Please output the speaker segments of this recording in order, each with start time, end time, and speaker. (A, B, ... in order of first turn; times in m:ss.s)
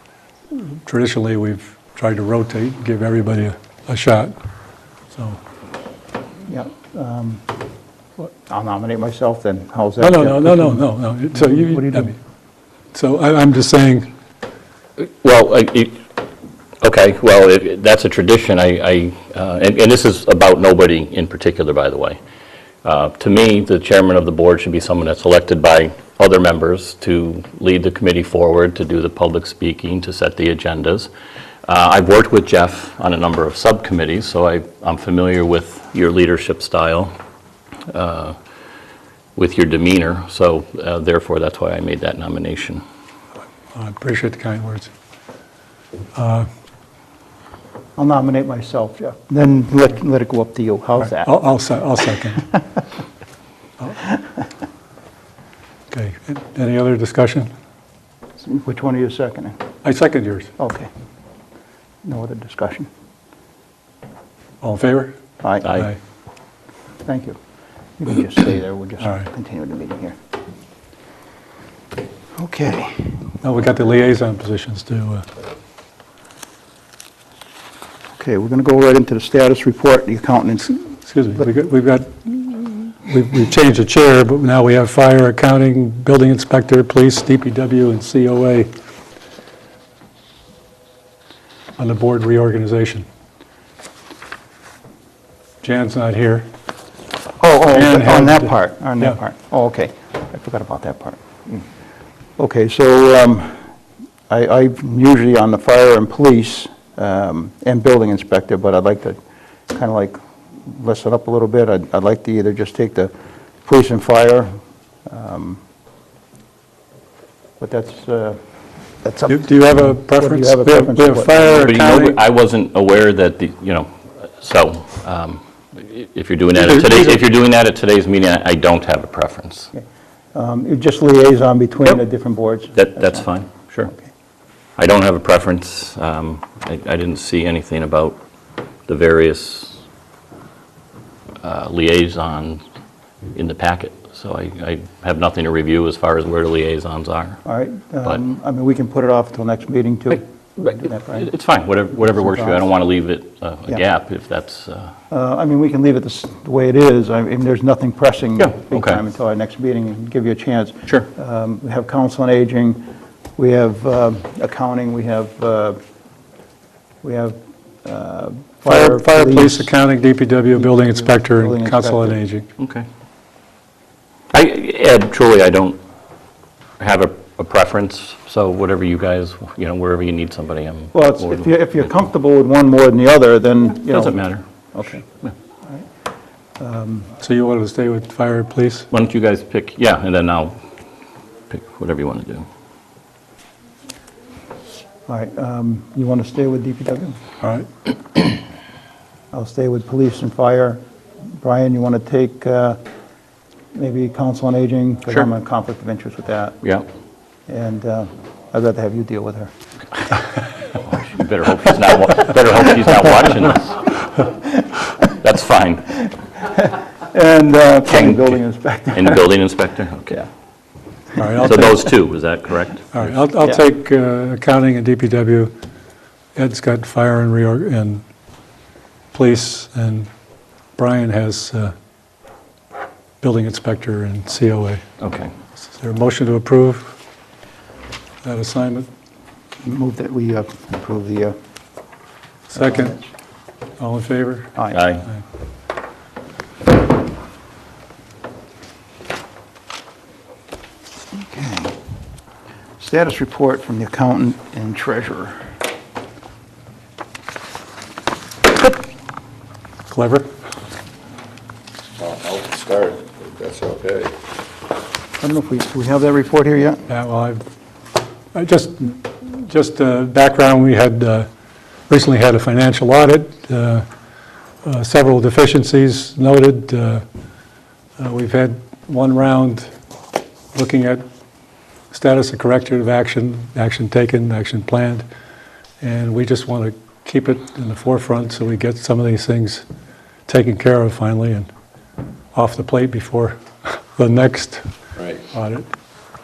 0:00.5-0:04.3 A
0:05.1-0:05.4 A
0:06.5-0:07.4 B
0:08.2-0:12.1 B
0:10.0-0:12.2 A
0:12.9-0:14.1 A
0:15.0-0:16.0 C
0:16.8-0:22.2 C
0:22.8-0:31.1 C
0:31.7-0:37.1 C
0:37.9-0:38.4 C
0:39.4-0:42.8 C
0:43.7-0:44.9 A
0:46.2-0:46.5 A
0:48.0-0:51.3 B
0:51.0-0:52.4 A
0:52.2-0:52.6 B
0:55.9-0:57.5 A
0:58.4-0:59.6 B
0:59.8-1:00.5 A
1:00.6-1:00.9 B
1:02.0-1:02.9 B
1:04.6-1:05.2 A
1:05.4-1:05.7 B
1:05.6-1:05.9 C
1:05.7-1:06.0 A
1:07.0-1:07.4 B
1:08.0-1:10.2 B
1:12.4-1:13.2 B
1:13.4-1:15.3 A
1:18.2-1:20.8 B
1:21.0-1:28.7 A
1:31.8-1:33.0 A
1:35.6-1:36.5 A
1:37.4-1:41.6 B
1:37.7-1:39.2 A
1:42.4-1:43.7 B
1:44.3-1:49.2 B
1:49.7-1:53.1 B
1:53.6-1:54.5 B
1:55.1-1:55.6 B
1:57.6-1:58.4 B
1:59.0-2:01.7 B
1:59.3-2:02.2 A
2:01.6-2:09.7 C
2:06.6-2:07.2 A
2:10.3-2:13.3 B
2:12.8-2:13.9 C
2:14.8-2:18.2 C
2:18.9-2:19.8 C
2:21.4-2:22.6 C
2:23.3-2:27.4 C
2:27.4-2:31.3 B
2:31.1-2:34.9 C
2:32.0-2:32.7 B
2:35.1-2:42.8 B
2:38.4-2:39.0 C
2:43.4-2:45.8 B
2:47.0-2:49.7 B
2:48.7-2:52.5 A
2:50.6-2:52.2 B
2:52.6-2:52.9 C
2:54.3-2:55.8 C
2:56.8-3:01.8 C
3:00.9-3:04.2 B
3:03.8-3:04.4 C
3:04.7-3:05.0 B
3:06.6-3:07.1 B
3:07.2-3:08.9 A
3:08.9-3:10.6 C
3:11.5-3:12.5 C
3:15.1-3:17.2 B
3:17.4-3:17.7 A
3:19.3-3:22.8 B
3:23.7-3:26.6 B
3:27.5-3:29.5 B
3:30.8-3:34.1 C
3:34.9-3:36.0 C
3:36.4-3:39.3 B
3:37.9-3:38.4 C
3:38.9-3:40.2 C
3:41.2-3:41.7 A
3:41.4-3:43.1 C
3:42.9-3:45.5 A
3:46.4-3:48.0 A
3:49.1-3:50.1 A
3:50.8-3:51.7 A
3:53.2-3:54.8 A
3:55.0-3:55.3 C
3:55.6-3:57.0 A
3:58.2-3:58.9 A
3:59.6-4:01.4 B
4:02.5-4:03.0 A
4:02.6-4:03.1 B
4:03.8-4:04.5 A
4:04.7-4:05.1 C
4:11.1-4:11.8 B
4:12.8-4:15.4 B
4:19.9-4:20.3 A
4:22.0-4:24.1 D
4:25.2-4:26.9 B
4:26.9-4:27.4 A
4:28.3-4:31.3 A
4:31.9-4:33.9 A
4:34.6-4:37.0 A
4:38.0-4:39.7 A
4:40.5-4:41.0 A
4:41.9-4:45.0 A
4:45.8-4:49.6 A
4:50.3-4:51.5 A
4:52.3-4:54.7 A
4:55.3-4:55.7 A